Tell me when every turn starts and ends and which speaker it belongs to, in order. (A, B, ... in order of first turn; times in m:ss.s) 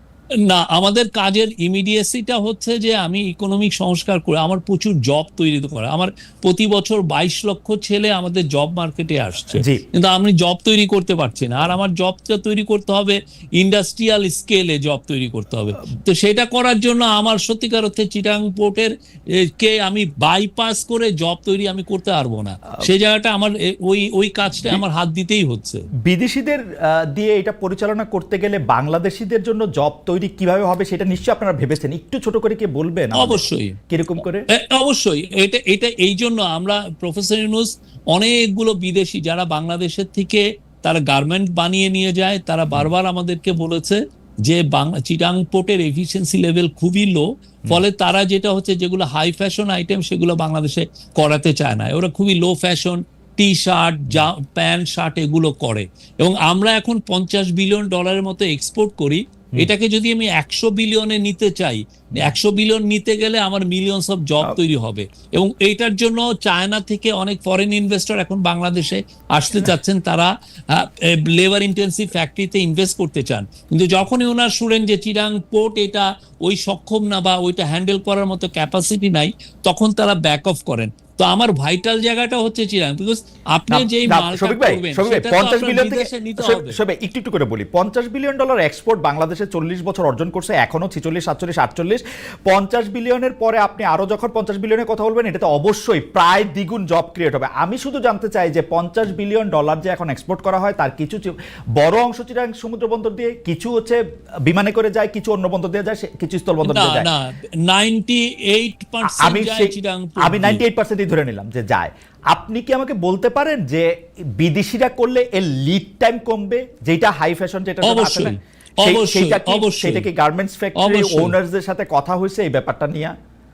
0:00.5-0:25.8 A
0:09.5-0:09.8 B
0:26.0-0:34.4 B
0:33.2-0:33.8 A
0:34.5-1:26.8 A
1:23.7-1:47.1 B
1:46.6-1:50.6 A
1:49.0-2:03.1 B
1:57.8-2:00.0 A
2:00.8-2:01.3 A